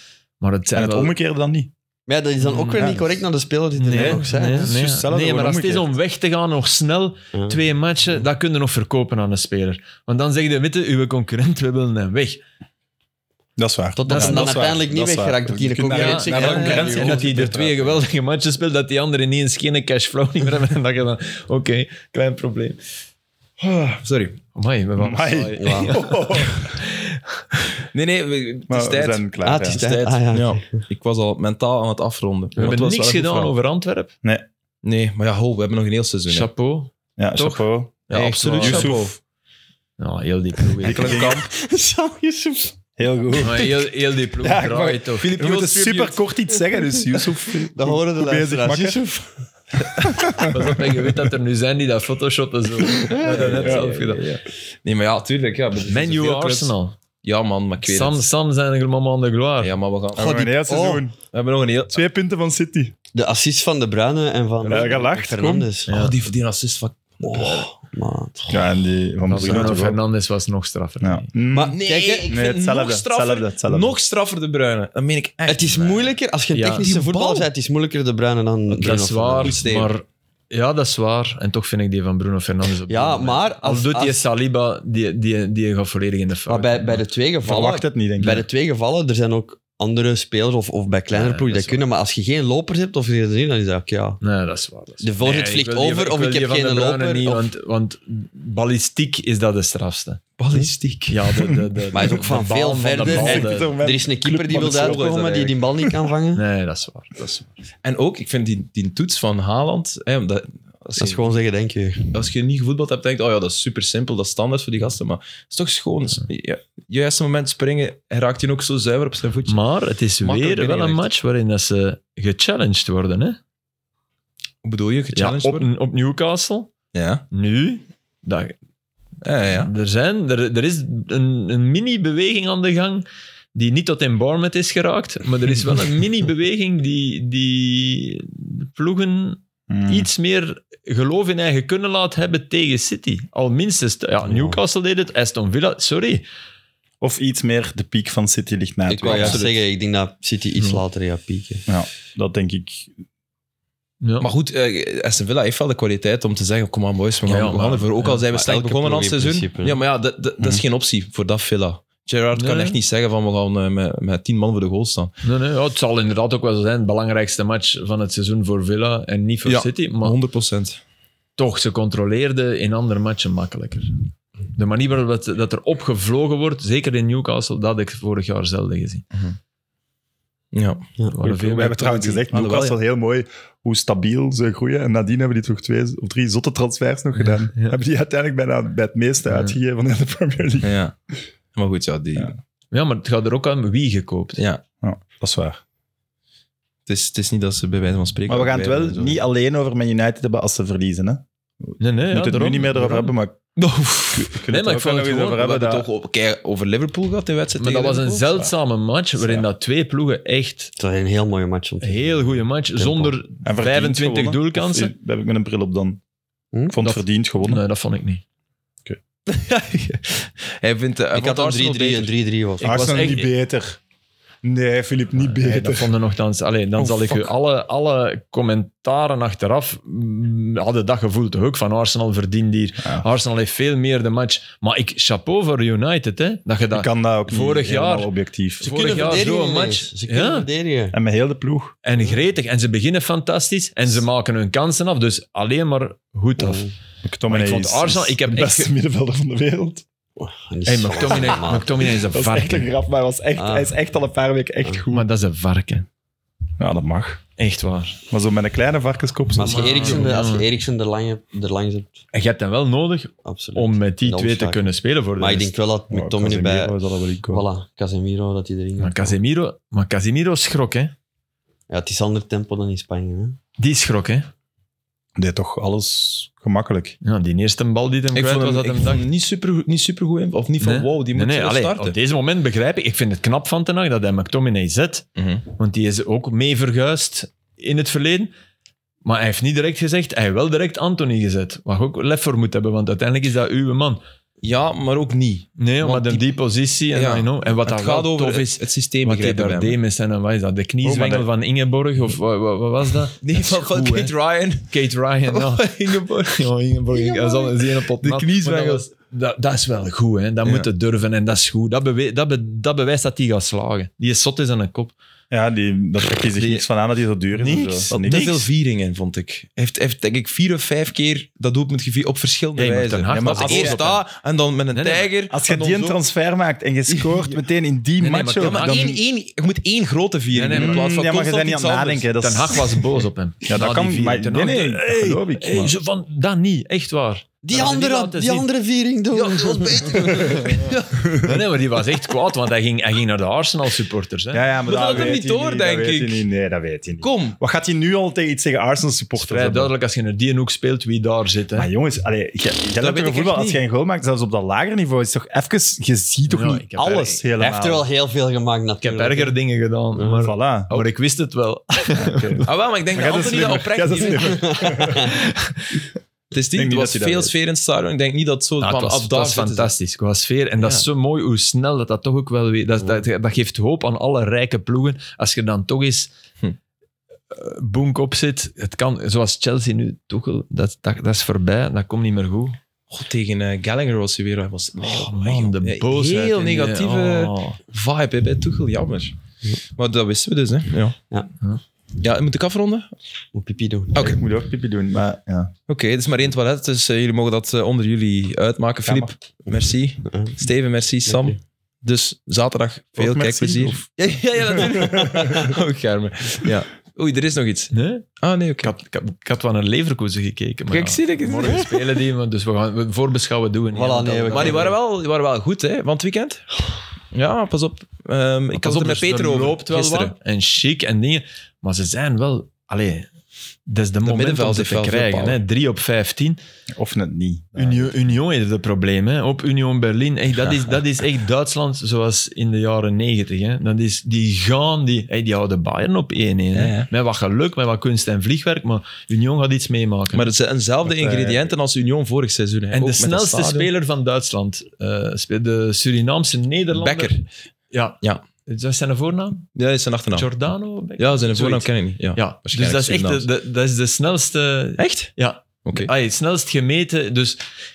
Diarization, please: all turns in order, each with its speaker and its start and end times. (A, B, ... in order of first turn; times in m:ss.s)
0:00.4-0:01.1 A
0:00.7-0:01.7 B
0:02.1-0:04.8 C
0:02.4-0:02.9 A
0:02.7-0:03.0 B
0:03.8-0:12.4 A
0:04.0-0:05.9 B
0:07.3-0:07.6 C
0:13.6-0:18.0 B
0:14.0-0:17.4 C
0:14.1-0:14.6 A
0:15.9-0:22.8 A
0:23.6-0:24.4 D
0:24.6-0:27.4 A
0:25.0-0:26.8 B
0:25.6-0:26.1 C
0:27.9-0:33.5 D
0:28.7-0:29.8 B
0:29.4-0:30.8 C
0:32.6-0:34.1 A
0:34.8-0:36.5 D
0:36.3-0:38.9 A
0:37.2-0:38.0 B
0:38.1-0:39.1 D
0:38.6-0:39.2 B
0:40.0-0:41.4 A
0:40.8-0:42.8 C
0:40.8-0:41.4 B
0:43.0-0:43.9 B
0:43.4-0:45.4 A
0:44.4-0:49.0 B
0:45.2-0:46.2 D
0:47.7-0:49.5 C
0:49.8-0:50.6 B
0:50.4-0:54.2 A
0:53.1-0:53.6 C
0:53.2-0:58.2 D
0:55.9-0:57.0 A
0:57.8-0:59.7 A
0:59.6-1:00.5 D
1:00.2-1:01.0 C
1:00.2-1:01.2 B
1:01.3-1:02.0 D
1:01.9-1:02.9 B
1:03.1-1:05.9 C
1:04.6-1:05.7 B
1:05.9-1:06.1 A
1:05.9-1:07.7 D
1:07.2-1:08.6 C
1:08.5-1:10.0 B
1:09.3-1:11.3 A
1:11.0-1:11.8 B
1:11.5-1:12.4 C
1:11.7-1:16.1 D
1:12.3-1:13.9 B
1:15.5-1:19.6 C
1:16.5-1:16.9 A
1:16.8-1:17.5 D
1:18.7-1:27.0 A
1:19.4-1:19.9 D
1:22.9-1:24.2 C
1:26.5-1:34.2 C
1:27.4-1:28.4 B
1:31.1-1:31.8 A
1:34.2-1:40.2 A
1:35.0-1:37.5 C
1:40.4-1:41.2 D
1:41.1-1:43.7 A
1:41.9-1:46.4 C
1:43.0-1:45.0 B
1:43.3-1:45.7 D
1:46.3-1:47.5 A
1:47.8-1:51.3 D
1:51.0-1:52.1 C
1:52.1-1:59.6 D
1:59.4-2:03.4 A
2:00.2-2:01.1 D
2:04.6-2:05.7 D
2:05.1-2:06.7 A
2:06.9-2:07.2 D
2:07.3-2:08.6 A
2:09.2-2:09.7 D
2:09.5-2:26.2 A
2:19.7-2:20.1 B
2:24.2-2:24.6 C
2:27.0-2:29.4 B
2:28.9-2:29.6 D
2:28.9-2:31.7 C
2:31.7-2:32.9 B
2:34.0-2:34.3 A
2:34.2-2:45.1 D
2:37.2-2:38.2 A
2:38.3-2:39.8 C
2:42.3-2:42.8 A
2:45.2-2:50.1 A
2:49.4-2:50.8 D
2:51.4-2:54.0 A
2:54.5-2:59.0 A
3:00.5-3:00.9 D
3:01.1-3:02.2 A
3:01.2-3:10.8 B
3:02.3-3:02.8 D
3:07.2-3:07.8 A
3:09.3-3:09.6 A
3:10.6-3:10.9 D
3:11.5-3:12.3 D
3:12.7-3:14.4 A
3:14.4-3:14.6 D
3:14.8-3:15.6 B
3:16.8-3:19.2 D
3:18.3-3:23.4 B
3:21.8-3:23.1 A
3:23.7-3:25.4 A
3:24.1-3:25.9 B
3:25.2-3:28.5 D
3:27.6-3:30.7 A
3:30.8-3:33.1 C
3:31.8-3:34.9 A
3:33.4-3:36.0 B
3:36.7-3:37.6 B
3:36.8-3:38.2 A
3:39.3-3:42.1 D
3:41.1-3:42.7 C
3:42.6-3:43.8 B
3:42.6-3:43.2 A
3:44.4-3:45.9 B
3:45.2-4:00.5 A
3:56.7-3:59.0 B
3:58.6-4:01.0 C
4:00.9-4:01.7 B
4:01.8-4:06.7 A
4:06.4-4:06.7 C
4:07.0-4:09.8 B
4:07.3-4:08.7 A
4:10.2-4:11.9 C
4:10.6-4:12.7 A
4:11.9-4:15.1 B
4:13.4-4:13.7 C
4:14.9-4:15.9 A
4:16.6-4:17.2 B
4:17.4-4:18.0 A
4:18.1-4:20.1 B
4:19.3-4:22.0 C
4:19.4-4:20.5 A
4:22.1-4:25.6 A
4:23.2-4:26.8 C
4:25.9-4:27.4 B
4:27.3-4:29.2 C
4:28.8-4:30.9 A
4:31.7-4:33.4 C
4:33.6-4:34.3 A
4:35.2-4:37.0 B
4:37.0-4:39.0 A
4:38.1-4:42.0 D
4:40.6-4:48.3 A
4:45.2-4:45.4 D
4:49.0-4:54.0 A
4:54.4-4:56.3 D
4:55.6-4:58.5 A
4:56.9-4:59.8 D
4:59.0-5:04.1 A
5:00.8-5:01.3 B
5:03.2-5:08.8 D
5:04.7-5:14.9 A
5:15.3-5:18.5 B
5:16.3-5:16.6 A
5:17.3-5:18.2 A
5:17.9-5:26.0 D
5:22.6-5:24.0 A
5:23.1-5:23.8 B
5:24.7-5:25.1 A
5:25.3-5:29.0 B
5:26.9-5:27.4 D
5:28.0-5:28.8 A
5:28.4-5:32.1 D
5:30.3-5:30.9 A
5:30.5-5:32.8 B
5:32.2-5:38.4 A
5:33.4-5:35.7 B
5:37.4-5:40.6 C
5:39.1-5:41.2 D
5:40.3-5:44.5 A
5:40.9-5:41.4 B
5:44.3-5:49.7 B
5:44.6-5:46.3 D
5:47.0-5:47.4 D
5:49.2-5:51.7 A
5:51.6-5:57.9 B
5:52.7-5:53.6 D
5:56.3-5:57.2 A
5:57.4-5:59.3 C
5:58.8-6:02.4 A
6:00.0-6:00.2 C
6:00.1-6:00.8 B
6:01.9-6:05.1 B
6:02.4-6:04.9 D
6:04.2-6:05.1 C
6:04.9-6:05.9 A
6:06.3-6:09.7 D
6:06.6-6:07.3 B
6:08.6-6:16.1 A
6:10.6-6:10.9 D
6:17.3-6:22.6 A
6:22.9-6:29.1 D
6:24.8-6:27.6 A
6:29.7-6:31.0 D
6:32.0-6:32.9 D
6:33.3-6:34.1 C
6:33.9-6:34.2 D
6:34.0-6:35.5 B
6:35.7-6:48.7 D
6:38.8-6:39.1 B
6:41.0-6:41.4 C
6:43.0-6:43.8 B
6:44.6-6:45.5 B
6:44.7-6:45.5 C
6:47.7-6:48.1 A
6:48.6-6:54.7 A
6:50.7-6:51.8 D
6:53.7-6:54.8 C
6:54.3-6:56.5 D
6:57.1-7:00.1 D
6:58.5-7:03.1 A
7:03.7-7:06.4 A
7:04.0-7:05.4 D
7:06.7-7:08.1 B
7:07.6-7:20.3 A
7:10.4-7:10.7 D
7:16.5-7:16.9 D
7:20.1-7:23.7 D
7:20.8-7:21.5 B
7:22.7-7:27.1 A
7:26.7-7:27.2 D
7:27.7-7:29.5 A
7:29.6-7:30.3 D
7:30.1-7:37.4 A
7:31.0-7:33.3 D
7:34.8-7:35.1 D
7:35.6-7:35.9 D